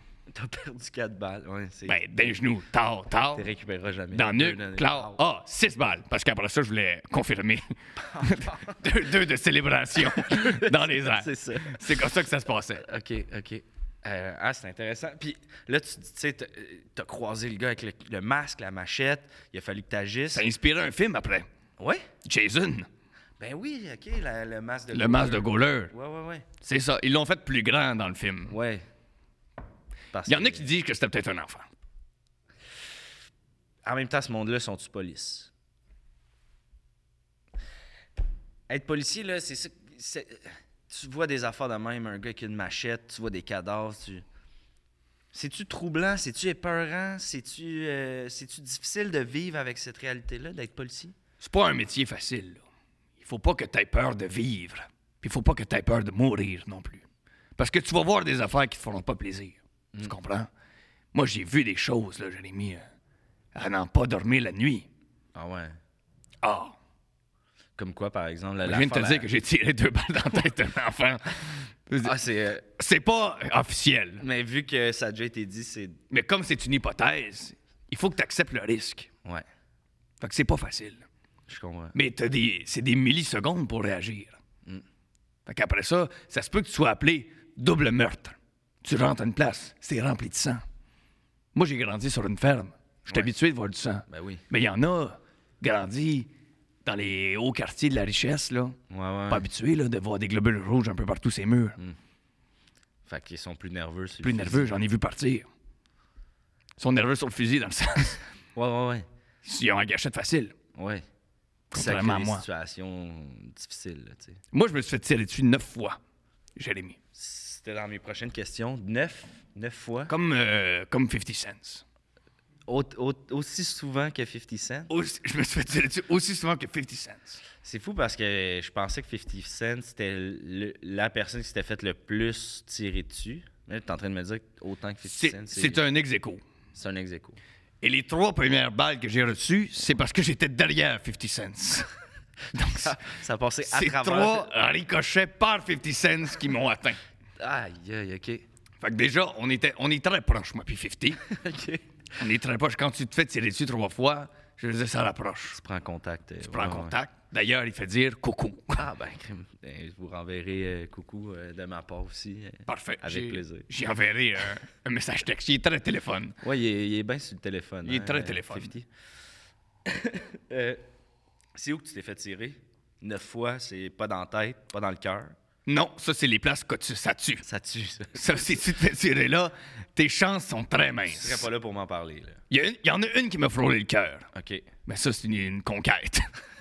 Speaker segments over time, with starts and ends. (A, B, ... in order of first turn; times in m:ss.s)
0:00.3-0:02.4 A
0:01.9-0:03.4 B
0:03.3-0:05.2 A
0:04.1-0:12.8 B
0:08.0-0:08.8 A
0:10.0-0:12.0 A
0:12.8-0:20.4 A
0:20.3-0:21.5 B
0:21.8-0:22.1 A
0:22.2-0:22.9 B
0:23.4-0:26.5 A
0:24.9-0:25.9 B
0:26.6-0:28.5 B
0:28.5-0:28.8 A
0:30.1-0:30.7 A
0:30.2-0:31.7 B
0:33.8-0:35.5 A
0:38.7-0:44.2 A
0:45.3-0:51.2 A
0:51.4-0:52.6 B
0:53.2-0:57.0 B
0:57.6-1:00.5 B
1:01.1-1:02.8 B
1:03.5-1:04.9 B
1:05.3-1:05.8 A
1:06.4-1:06.8 B
1:07.8-1:09.3 A
1:08.6-1:14.2 B
1:12.0-1:12.6 A
1:14.2-1:16.0 A
1:16.1-1:19.1 B
1:20.2-1:21.0 B
1:21.5-1:22.0 A
1:21.9-1:24.4 B
1:25.4-1:30.6 B
1:31.5-1:36.3 B
1:34.1-1:34.4 A
1:36.8-1:38.8 B
1:38.9-1:39.5 A
1:39.3-1:41.8 B
1:43.0-1:44.8 A
1:44.2-1:45.5 B
1:46.8-1:48.2 B
1:48.5-1:49.0 A
1:49.4-1:50.5 B
1:50.7-1:51.0 A
1:51.7-1:52.4 B
1:51.7-1:54.4 A
1:54.5-1:56.0 B
1:56.6-1:57.0 B
1:57.1-2:00.1 A
2:00.1-2:01.8 B
2:02.7-2:04.9 A
2:04.9-2:07.4 B
2:07.6-2:15.8 A
2:15.0-2:16.4 B
2:16.7-2:17.4 A
2:17.8-2:21.9 B
2:22.5-2:23.0 B
2:22.5-2:24.5 A
2:23.6-2:27.0 B
2:27.4-2:28.4 A
2:28.8-2:31.2 B
2:31.2-2:31.8 A
2:32.2-2:35.6 B
2:35.5-2:36.9 A
2:36.4-2:38.8 B
2:38.8-2:43.7 A
2:42.7-2:46.4 B
2:46.4-2:48.9 A
2:47.8-2:48.7 B
2:49.8-2:50.8 A
2:51.5-2:55.3 A
2:55.6-2:57.4 B
2:57.4-2:58.6 A
2:58.1-3:01.5 B
3:01.1-3:02.4 A
3:02.5-3:04.3 B
3:04.3-3:04.7 A
3:04.8-3:06.3 B